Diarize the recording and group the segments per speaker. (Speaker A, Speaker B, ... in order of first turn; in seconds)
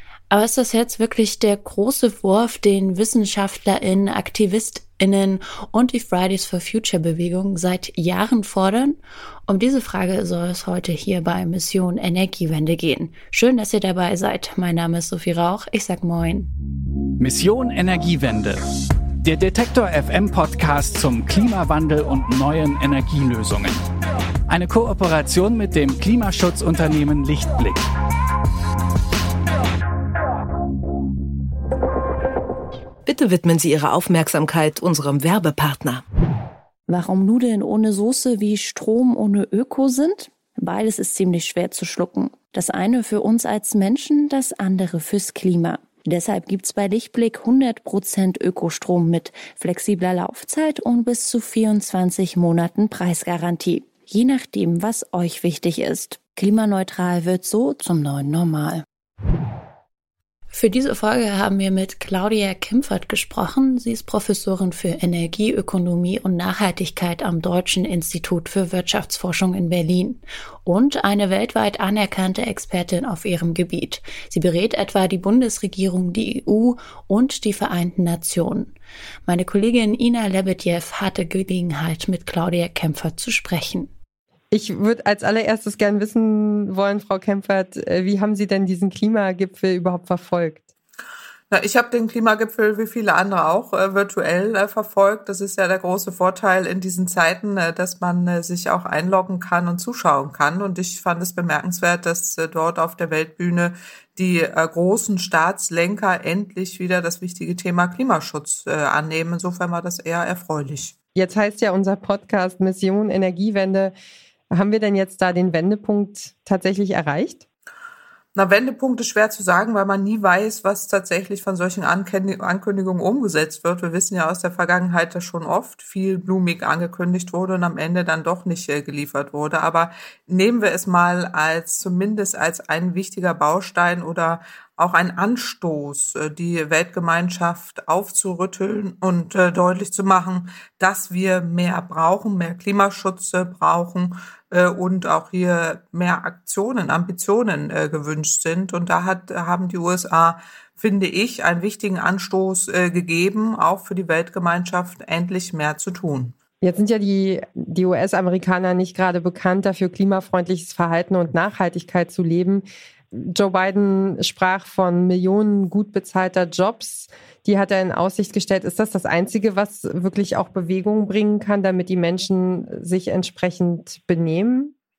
Speaker A: 0.3-16.5, 36.9-58.8, 60.5-78.7, 79.3-83.9
Speaker B: 17.2-18.6, 19.2-23.8, 24.5-27.8
Speaker C: 33.1-36.0
Speaker D: 84.5-90.7, 111.1-113.9, 114.5-117.4, 156.6-174.7
Speaker E: 91.5-110.9, 118.3-156.3